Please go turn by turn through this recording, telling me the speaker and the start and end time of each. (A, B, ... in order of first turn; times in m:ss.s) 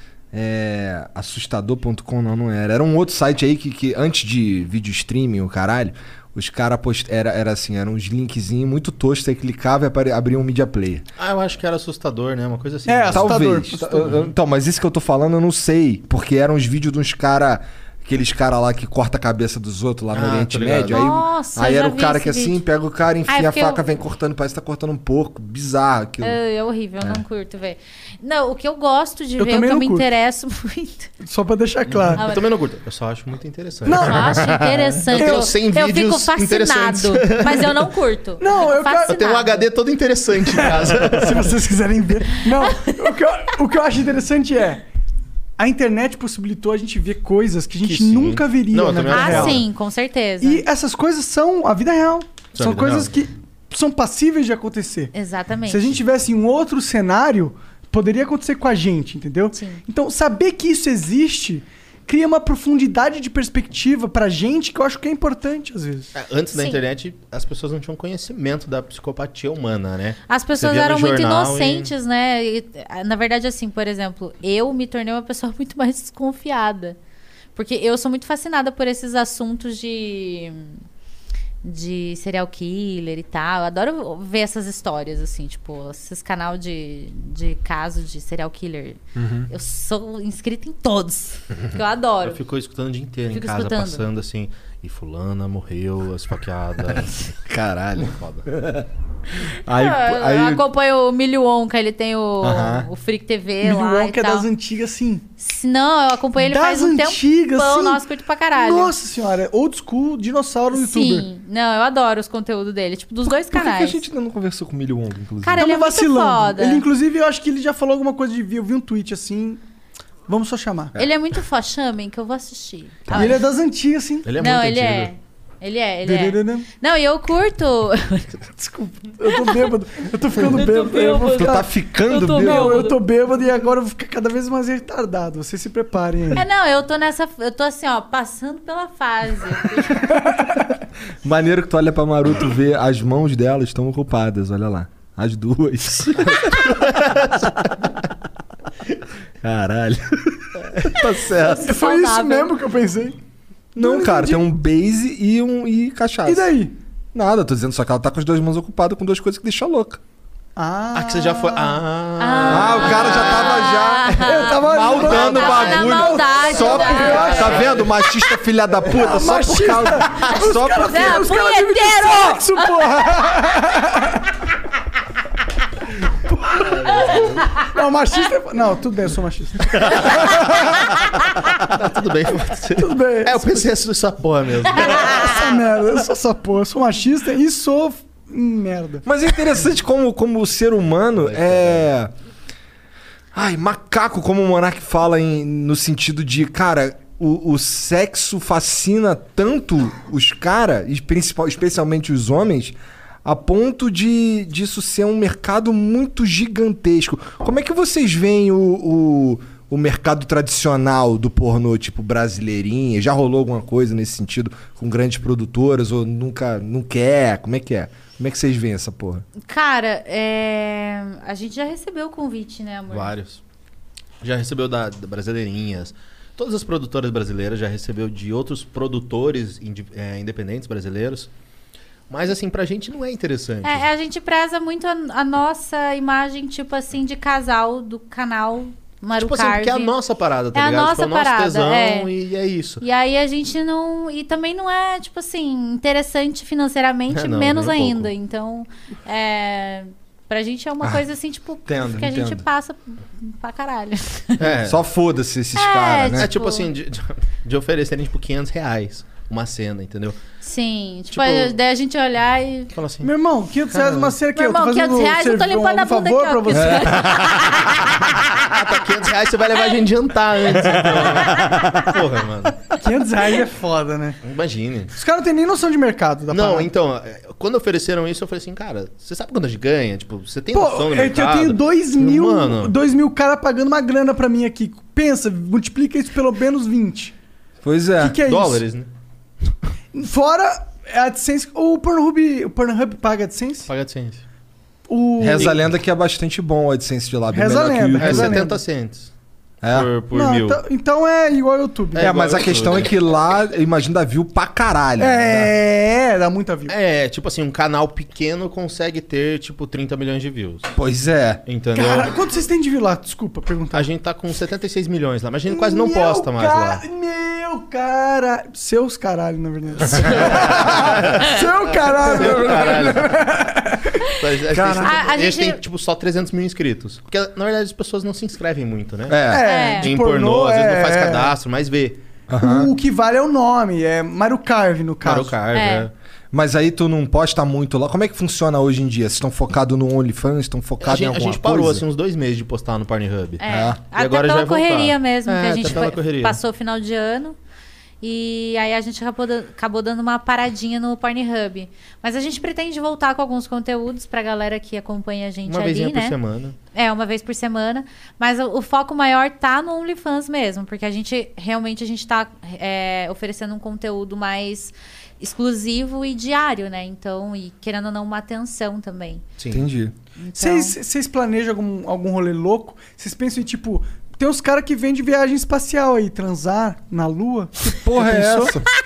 0:00.3-0:11.1 A
0:11.2-0:14.2 B
0:12.9-0:14.2 C
0:13.1-0:26.4 A
0:20.1-0:21.0 B
0:20.9-0:22.6 D
0:23.3-0:23.8 D
0:26.2-0:31.1 D
0:29.4-0:30.1 C
0:31.2-0:32.2 C
0:32.2-0:37.8 B
0:32.2-0:32.4 D
0:33.8-0:34.6 C
0:34.0-0:39.6 D
0:38.4-0:39.2 C
0:39.1-0:41.6 B
0:40.6-0:44.8 C
0:42.6-0:43.1 D
0:45.6-0:49.6 C
0:47.8-0:49.6 B
0:49.1-0:50.6 D
0:50.4-0:55.1 C
0:52.6-0:53.2 B
0:55.1-0:55.9 D
0:55.7-1:06.1 C
0:59.5-0:59.8 D
1:06.2-1:11.9 B
1:06.5-1:06.8 D
1:10.3-1:17.0 D
1:17.6-1:20.8 D
1:21.6-1:32.4 D
1:29.2-1:29.5 A
1:32.2-1:37.2 B
1:33.3-1:34.1 D
1:37.5-1:38.8 A
1:38.1-1:38.5 B
1:39.6-1:40.7 A
1:39.7-1:44.5 D
1:42.4-1:42.9 A
1:43.6-1:45.2 C
1:45.4-1:48.9 D
1:46.4-1:48.0 C
1:48.5-1:51.3 C
1:50.7-1:54.0 D
1:53.4-1:55.7 A
1:55.4-1:56.8 D
1:55.6-1:59.6 C
2:00.3-2:01.0 C
2:01.0-2:03.5 D
2:03.1-2:03.4 A
2:03.1-2:04.3 C
2:04.2-2:05.1 B
2:04.4-2:08.4 D
2:06.0-2:06.7 C
2:08.6-2:11.7 C
2:09.2-2:09.6 D
2:10.5-2:13.0 D
2:11.3-2:12.9 A
2:12.3-2:16.4 C
2:16.3-2:20.2 D
2:20.1-2:20.6 C
2:21.2-2:27.7 A
2:26.5-2:27.3 B
2:29.4-2:31.8 A
2:31.6-2:32.5 D
2:31.6-2:33.2 C
2:33.7-2:34.5 C
2:33.8-2:36.5 A
2:36.2-2:36.7 C
2:37.1-2:40.0 A
2:40.6-2:41.8 C
2:40.9-2:43.8 B
2:42.2-2:47.7 D
2:42.5-2:51.2 A
2:44.2-2:47.8 C
2:44.7-2:47.9 B
2:48.9-2:54.2 C
2:50.8-2:52.9 D
2:56.5-3:00.6 C
2:56.6-2:57.4 B
2:59.8-3:00.5 B
3:01.5-3:05.5 B
3:02.8-3:03.7 C
3:04.9-3:09.0 C
3:09.0-3:12.1 A
3:11.2-3:11.9 B
3:13.3-3:39.2 A
3:39.5-3:43.1 D
3:42.9-3:43.4 B
3:44.2-3:51.3 B
3:52.1-3:53.9 B
3:53.6-4:00.0 D
3:59.2-4:02.8 B
4:00.5-4:02.1 D
4:02.8-4:14.5 D
4:07.1-4:08.1 B
4:11.7-4:12.4 A
4:14.4-4:14.8 B
4:14.6-4:16.3 A
4:15.6-4:16.7 D
4:16.1-4:20.2 B
4:20.4-4:22.7 D
4:21.1-4:21.6 B
4:22.7-4:23.1 B
4:23.0-4:27.0 C
4:23.7-4:24.0 B
4:24.3-4:28.3 D
4:26.5-4:27.2 A
4:28.3-4:32.7 B
4:32.7-4:34.2 C
4:34.2-4:35.0 B
4:35.0-4:36.7 C
4:36.3-4:42.7 B
4:40.5-4:47.1 C
4:47.6-4:48.2 A
4:48.0-4:48.6 C
4:48.2-4:48.9 B
4:49.9-4:53.7 C
4:53.7-4:54.2 B
4:54.9-4:55.6 C
4:55.2-4:58.5 A
4:57.3-4:58.6 C
4:58.0-4:59.1 B
4:59.6-4:59.9 A
4:59.6-5:00.6 B
5:00.1-5:02.3 C
5:02.0-5:03.0 B
5:02.0-5:05.5 A
5:05.0-5:06.7 C
5:06.7-5:10.7 B
5:10.8-5:11.4 A
5:11.5-5:12.2 B
5:11.8-5:13.9 C
5:13.7-5:16.8 B
5:15.5-5:24.0 C
5:19.9-5:23.2 B
5:22.2-5:22.9 A
5:24.1-5:32.0 B
5:24.5-5:24.8 A
5:24.6-5:24.9 C
5:24.8-5:25.6 D
5:29.1-5:29.5 A
5:29.3-5:31.3 C
5:29.4-5:29.9 D
5:32.3-5:32.7 A
5:32.4-5:35.4 C
5:35.0-5:35.9 B
5:35.5-5:35.9 D
5:36.3-5:41.8 A
5:40.8-5:46.4 B
5:43.4-5:47.4 D
5:43.5-5:43.8 A
5:48.0-5:56.2 D
5:55.5-5:56.6 B
5:56.7-6:09.2 D
6:09.4-6:09.6 B
6:09.5-6:09.9 A
6:10.2-6:10.8 D
6:10.4-6:18.6 C
6:17.6-6:18.7 A